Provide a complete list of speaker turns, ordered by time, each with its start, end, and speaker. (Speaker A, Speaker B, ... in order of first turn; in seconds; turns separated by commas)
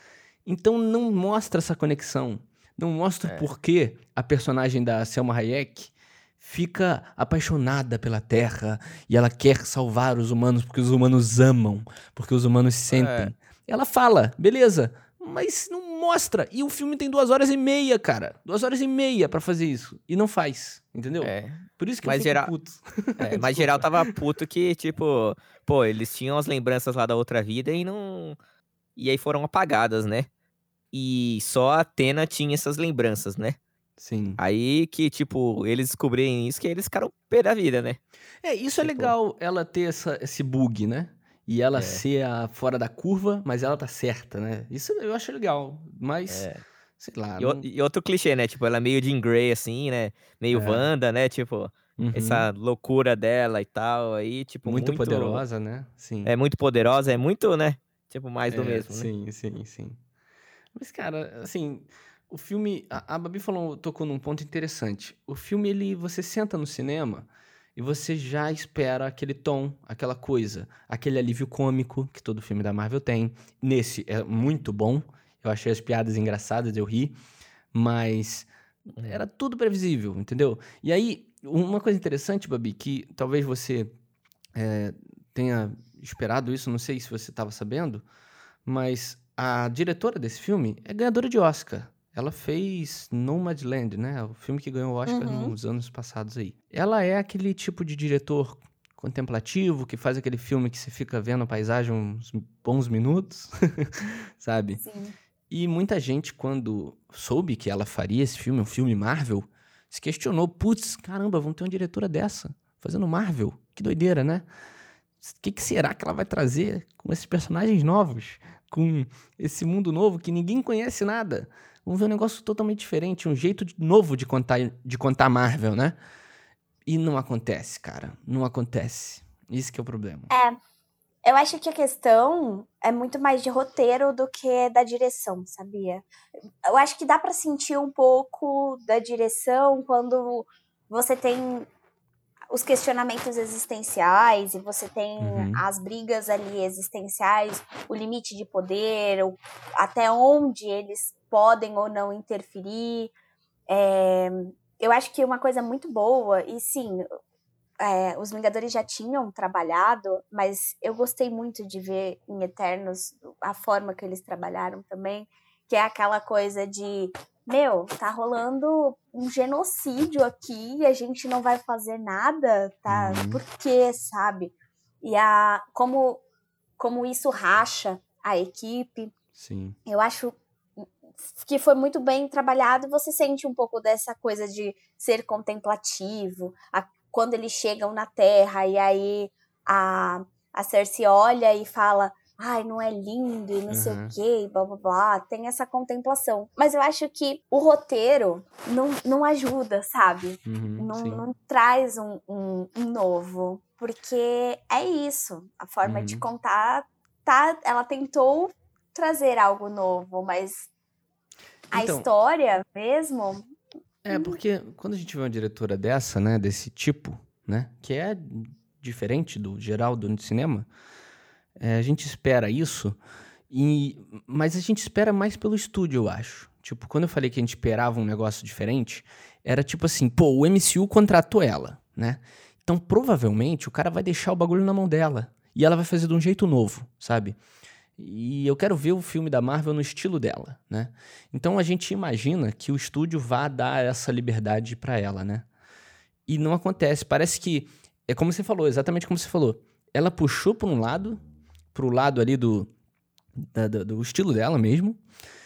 Speaker A: 0.4-24.1, Speaker B: 12.9-13.3, Speaker B: 21.2-22.5, Speaker B: 23.2-28.4, Speaker B: 28.9-30.3, Speaker B: 30.9-33.6, Speaker A: 34.0-34.4, Speaker B: 34.4-38.0, Speaker A: 38.4-47.6, Speaker B: 38.8-39.1, Speaker B: 41.8-42.0, Speaker B: 46.3-46.6, Speaker B: 47.4-55.4, Speaker A: 50.5-50.9, Speaker A: 52.0-52.5, Speaker A: 54.6-56.3, Speaker B: 56.2-59.1, Speaker A: 58.5-60.0, Speaker A: 60.7-77.2, Speaker A: 77.7-78.5, Speaker B: 78.9-79.2, Speaker A: 79.0-83.9, Speaker A: 84.5-88.0, Speaker A: 88.7-104.8, Speaker C: 95.1-95.5, Speaker C: 104.8-105.1, Speaker A: 105.5-114.5, Speaker A: 115.2-126.0, Speaker A: 126.8-130.3, Speaker C: 130.3-130.6, Speaker C: 131.2-136.1, Speaker C: 136.6-141.7, Speaker C: 142.5-153.1, Speaker A: 145.2-145.6, Speaker C: 153.7-157.1, Speaker C: 157.8-176.2, Speaker A: 172.9-173.4, Speaker C: 176.8-179.1, Speaker A: 179.3-179.8, Speaker C: 179.8-210.7, Speaker A: 193.7-194.1, Speaker A: 200.4-201.2, Speaker A: 205.8-206.2, Speaker A: 211.7-212.1, Speaker C: 211.7-213.5, Speaker A: 214.0-220.7, Speaker C: 214.1-214.4, Speaker A: 221.6-223.0, Speaker A: 223.5-237.4, Speaker A: 238.0-245.4, Speaker A: 246.3-251.2, Speaker A: 251.7-252.7, Speaker A: 253.4-255.0